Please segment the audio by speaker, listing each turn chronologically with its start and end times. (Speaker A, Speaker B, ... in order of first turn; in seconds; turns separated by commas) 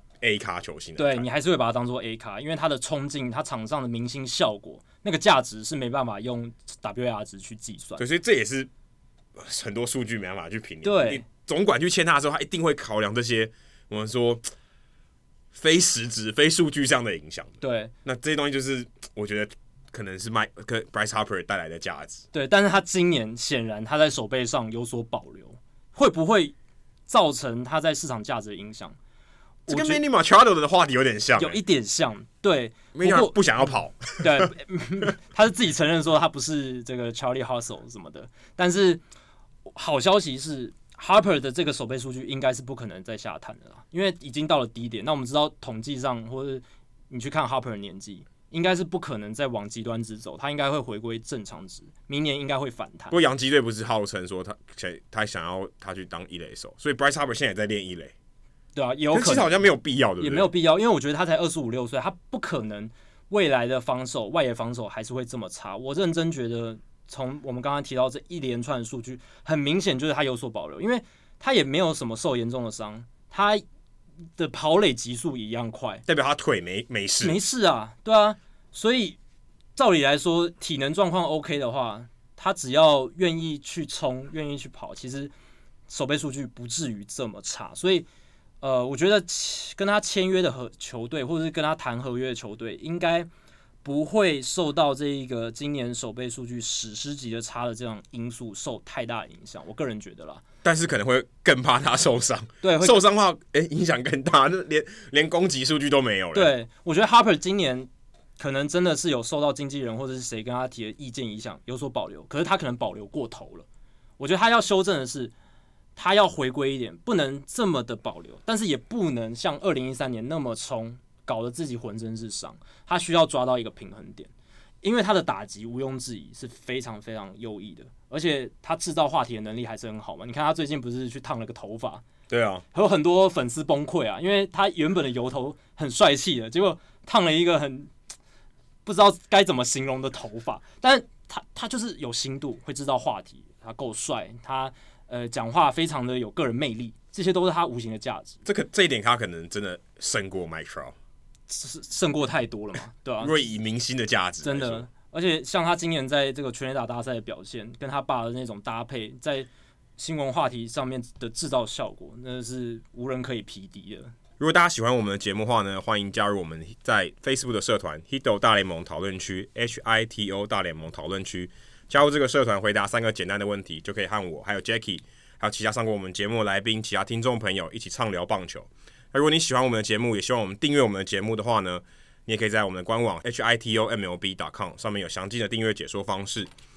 Speaker A: 0.2-1.2, Speaker B: 1.0-8.0, Speaker A: 8.0-8.7, Speaker A: 9.4-14.4, Speaker B: 10.8-11.2, Speaker A: 15.5-22.2, Speaker B: 17.6-17.9, Speaker B: 22.3-26.5, Speaker B: 27.1-28.9, Speaker B: 29.7-30.0, Speaker A: 29.7-31.6, Speaker B: 31.4-33.4, Speaker A: 32.9-34.5, Speaker B: 34.2-39.0, Speaker B: 39.6-53.1, Speaker A: 53.1-58.1, Speaker B: 58.8-59.5, Speaker A: 59.1-60.5, Speaker B: 60.2-73.6, Speaker B: 74.4-76.0, Speaker A: 76.1-77.4, Speaker B: 77.2-79.2, Speaker B: 79.8-85.3, Speaker B: 85.9-88.1, Speaker B: 88.6-93.3, Speaker B: 93.8-100.4, Speaker A: 100.6-106.5, Speaker B: 102.6-103.0, Speaker B: 106.3-113.7, Speaker B: 114.2-115.3, Speaker B: 116.0-124.3, Speaker B: 124.8-132.1, Speaker A: 132.3-132.6, Speaker B: 132.7-137.9, Speaker B: 138.8-148.4, Speaker A: 148.4-150.9, Speaker B: 151.5-153.4, Speaker A: 153.2-154.8, Speaker B: 154.4-164.1, Speaker A: 164.4-186.5